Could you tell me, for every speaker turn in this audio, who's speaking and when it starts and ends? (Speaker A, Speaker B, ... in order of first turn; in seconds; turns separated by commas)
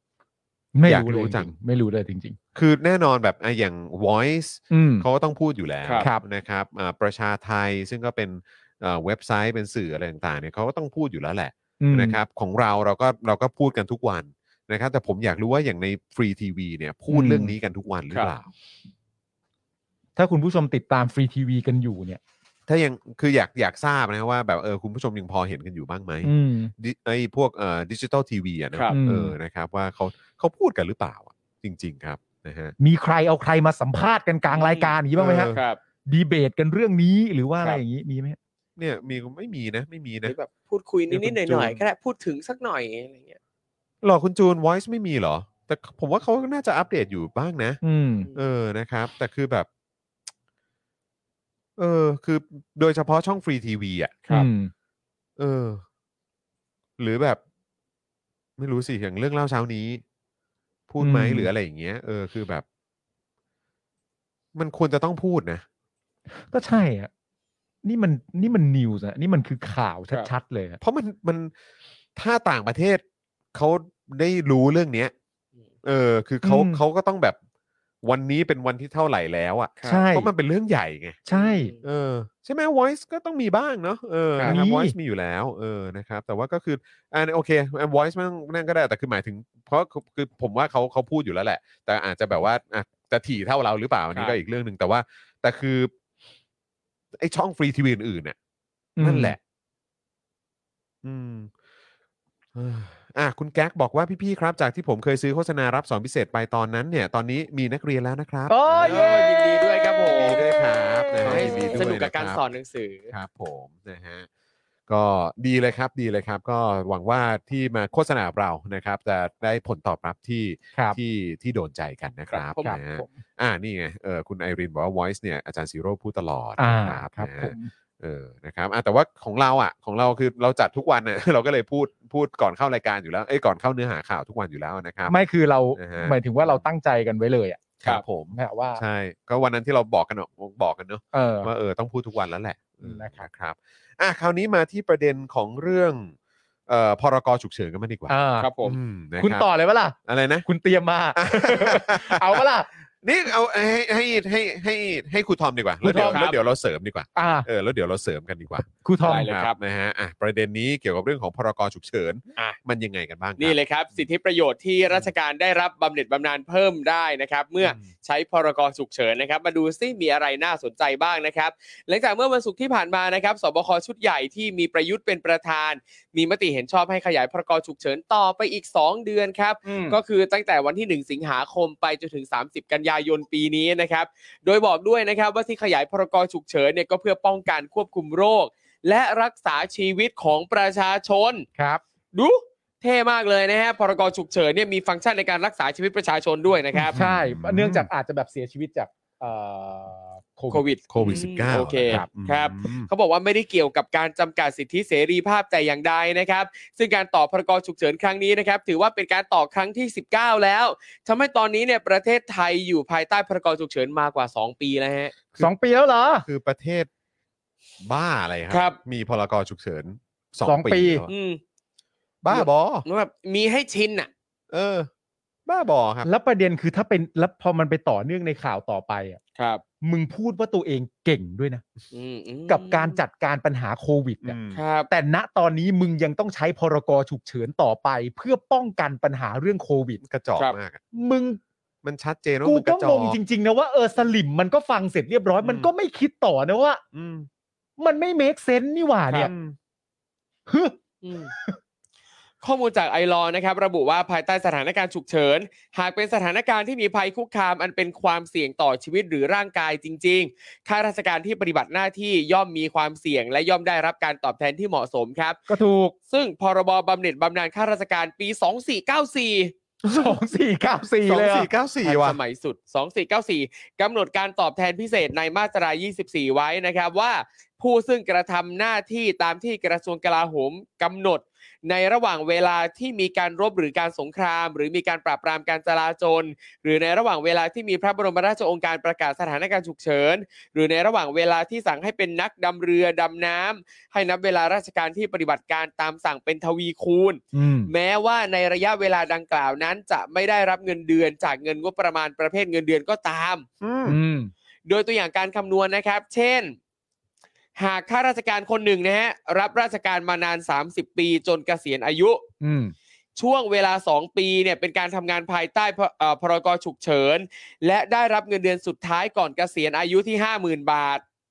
Speaker A: 0.7-2.4, Speaker B: 0.8-1.5, Speaker B: 2.5-18.5, Speaker A: 4.7-5.0, Speaker A: 11.8-12.2, Speaker A: 17.1-17.5, Speaker A: 20.1-22.2, Speaker B: 22.7-32.7, Speaker A: 26.2-26.7, Speaker A: 28.9-29.3, Speaker A: 32.8-35.5, Speaker C: 34.5-34.9, Speaker B: 35.2-35.6, Speaker C: 35.5-35.8, Speaker A: 36.1-38.4, Speaker B: 38.8-40.3, Speaker C: 40.2-43.4, Speaker B: 41.1-41.8, Speaker B: 44.0-47.8, Speaker A: 47.8-48.3, Speaker B: 48.3-49.7, Speaker B: 51.8-54.2, Speaker A: 54.3-54.7, Speaker B: 55.4-55.8, Speaker B: 57.0-57.4, Speaker B: 58.6-60.0, Speaker B: 60.9-62.6, Speaker A: 61.0-61.5, Speaker B: 64.5-65.6, Speaker A: 66.3-67.1, Speaker A: 67.8-70.8, Speaker B: 70.8-71.5, Speaker B: 72.2-73.0, Speaker B: 73.5-75.1, Speaker B: 75.8-77.4, Speaker A: 76.4-76.8, Speaker B: 78.0-81.2, Speaker C: 79.8-80.0, Speaker A: 79.8-80.3, Speaker A: 81.3-81.7, Speaker C: 81.3-81.8, Speaker B: 81.8-95.9, Speaker A: 84.4-84.9, Speaker B: 97.2-98.3, Speaker A: 99.0-99.3, Speaker B: 99.0-99.4, Speaker B: 101.0-101.5, Speaker B: 102.5-109.3, Speaker A: 108.5-109.2, Speaker C: 108.8-110.5, Speaker B: 110.0-112.4, Speaker A: 111.2-111.9, Speaker C: 111.2-113.1, Speaker B: 113.1-114.3, Speaker B: 114.9-135.1, Speaker C: 122.3-122.8, Speaker A: 122.6-123.1, Speaker A: 126.6-127.7, Speaker A: 135.1-137.7, Speaker B: 135.7-136.7, Speaker B: 137.8-146.1, Speaker A: 138.3-138.8, Speaker A: 141.1-141.5, Speaker A: 142.8-143.3, Speaker B: 146.7-149.5, Speaker A: 148.1-148.5, Speaker C: 148.4-148.8, Speaker A: 149.2-152.7, Speaker B: 150.1-150.5, Speaker B: 151.2-152.4, Speaker B: 153.0-163.6, Speaker A: 155.8-156.2, Speaker C: 155.9-156.4, Speaker A: 157.2-157.5, Speaker A: 158.8-159.3, Speaker C: 159.0-159.5, Speaker C: 163.4-191.4, Speaker A: 179.6-180.0, Speaker C: 192.1-197.0, Speaker B: 196.7-197.9, Speaker A: 196.9-201.2, Speaker C: 200.5-215.1, Speaker B: 200.9-202.9, Speaker A: 215.4-216.2, Speaker B: 216.2-216.9, Speaker B: 217.8-221.1, Speaker C: 218.5-218.8, Speaker A: 220.4-221.0, Speaker C: 221.1-221.4, Speaker B: 222.2-222.8, Speaker C: 222.3-224.1, Speaker B: 224.5-224.9, Speaker B: 225.4-226.1, Speaker A: 226.0-229.2, Speaker C: 229.4-229.6, Speaker A: 229.8-231.6, Speaker C: 231.9-233.0, Speaker A: 232.5-234.4, Speaker B: 234.2-234.6, Speaker C: 234.5-234.9, Speaker A: 234.9-240.0, Speaker B: 240.0-240.8, Speaker A: 240.9-241.4, Speaker B: 241.8-243.2, Speaker A: 242.4-246.8, Speaker B: 245.4-245.7, Speaker B: 246.9-247.3, Speaker A: 247.8-249.3, Speaker B: 249.1-249.6, Speaker A: 250.5-250.8, Speaker C: 251.0-251.3, Speaker A: 251.3-251.6, Speaker C: 252.4-265.4, Speaker A: 265.5-265.9, Speaker C: 266.1-269.5, Speaker B: 269.8-270.1, Speaker A: 269.9-271.5, Speaker B: 271.0-272.2, Speaker C: 271.8-303.4, Speaker A: 297.3-297.7, Speaker B: 303.6-304.0, Speaker A: 303.9-304.3, Speaker C: 304.6-306.6, Speaker C: 307.6-312.2, Speaker A: 312.4-312.7, Speaker C: 313.1-321.0